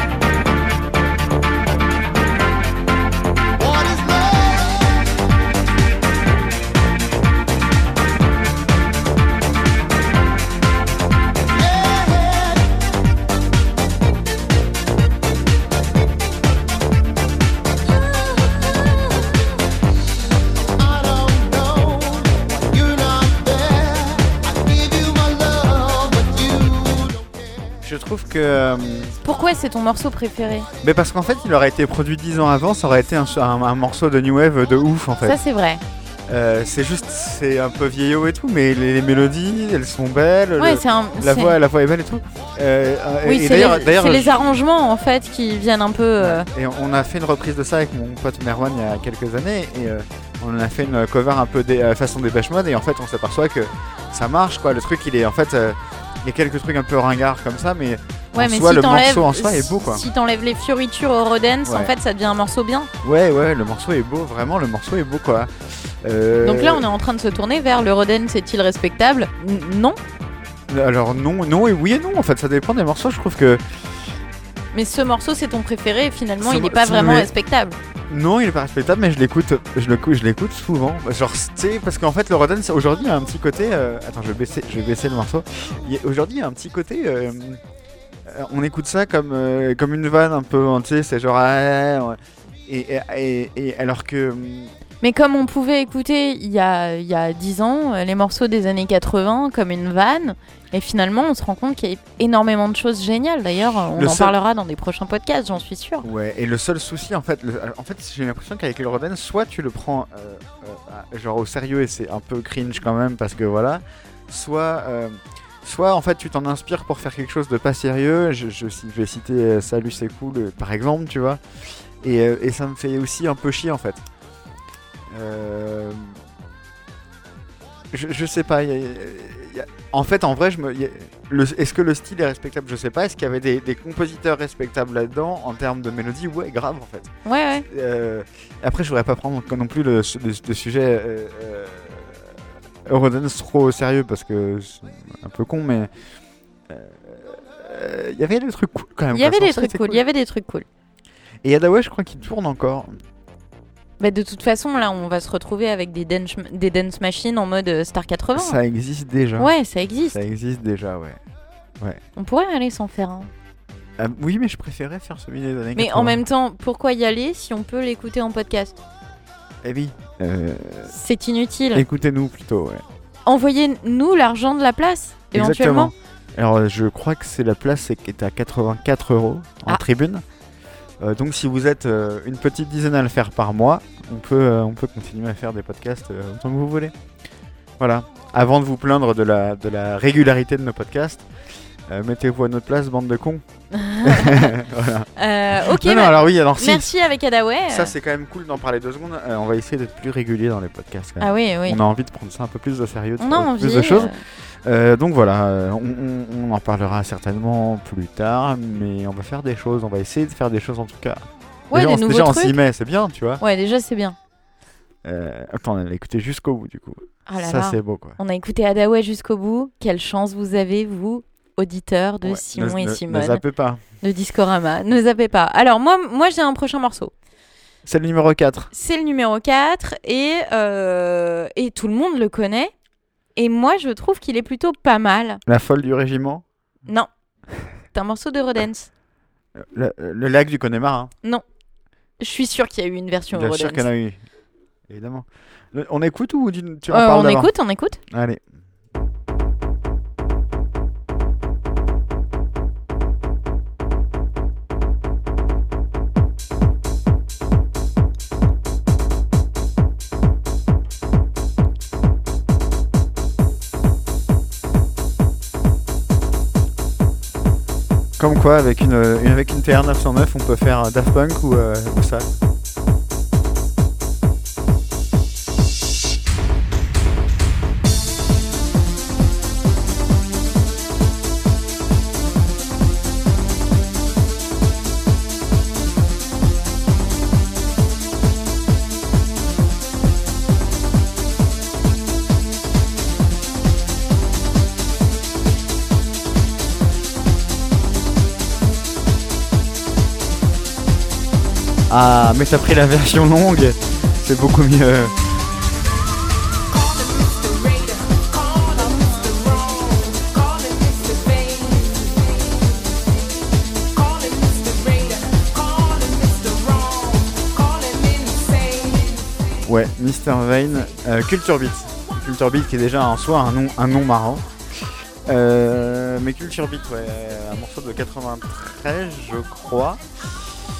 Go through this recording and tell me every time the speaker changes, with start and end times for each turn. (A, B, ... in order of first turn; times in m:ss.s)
0:03.6-0:04.9 A
0:11.6-0:12.6 A
0:20.8-0:27.2 A
0:27.8-0:29.1 B
0:29.2-0:30.7 C
0:30.8-0:35.4 B
0:35.2-0:35.8 C
0:36.3-0:44.4 B
0:40.6-0:41.6 C
0:43.2-0:46.5 C
0:46.2-1:00.0 B
0:58.3-1:02.9 C
1:01.6-1:01.9 B
1:03.0-1:06.8 B
1:06.4-1:10.0 C
1:10.7-1:13.6 B
1:14.7-1:17.8 C
1:16.4-1:17.3 B
1:18.1-1:27.6 B
1:28.2-1:34.7 B
1:35.0-1:46.0 C
1:43.9-1:44.3 B
1:46.0-2:01.4 B
2:02.0-2:04.0 B
2:05.1-2:06.2 B
2:07.9-2:17.1 B
2:17.2-2:17.7 C
2:17.7-2:22.3 B
2:22.8-2:25.9 B
2:26.7-2:30.0 B
2:29.1-2:30.6 C
2:31.4-2:32.9 B
2:34.0-2:38.6 C
2:38.3-2:39.5 B
2:39.4-2:40.2 C
2:40.1-2:41.2 B
2:42.2-2:43.3 C
2:44.0-2:46.2 B
2:45.8-2:48.8 C
2:49.6-2:50.9 B
2:50.9-2:51.8 C
2:51.7-2:52.8 B
2:53.2-2:55.9 C
2:55.3-3:00.2 B
3:01.0-3:06.9 B
3:07.8-3:11.2 B
3:11.9-3:13.4 B
3:13.7-3:14.5 C
3:14.0-3:16.9 B
3:15.2-3:17.9 C
3:17.7-3:24.1 B
3:21.2-3:21.8 C
3:23.2-3:24.2 C
3:24.6-3:33.4 B
3:31.7-3:32.6 C
3:33.4-3:34.2 C
3:35.0-3:38.2 B
3:37.3-3:43.4 C
3:42.2-3:43.8 B
3:44.0-3:47.1 C
3:47.8-3:48.7 B
3:48.7-3:52.7 C
3:53.4-3:55.4 C
3:55.4-3:56.4 B
3:57.9-3:58.9 C
3:59.6-4:01.1 B
4:02.2-4:03.9 C
4:03.3-4:04.2 B
4:04.9-4:07.5 B
4:06.9-4:08.0 C
4:08.1-4:08.4 B
4:28.2-4:32.3 B
5:01.9-5:05.1 B
5:06.7-5:12.2 A
5:08.7-5:09.4 C
5:13.9-5:19.2 A
5:19.6-5:24.4 B
5:25.2-5:30.0 B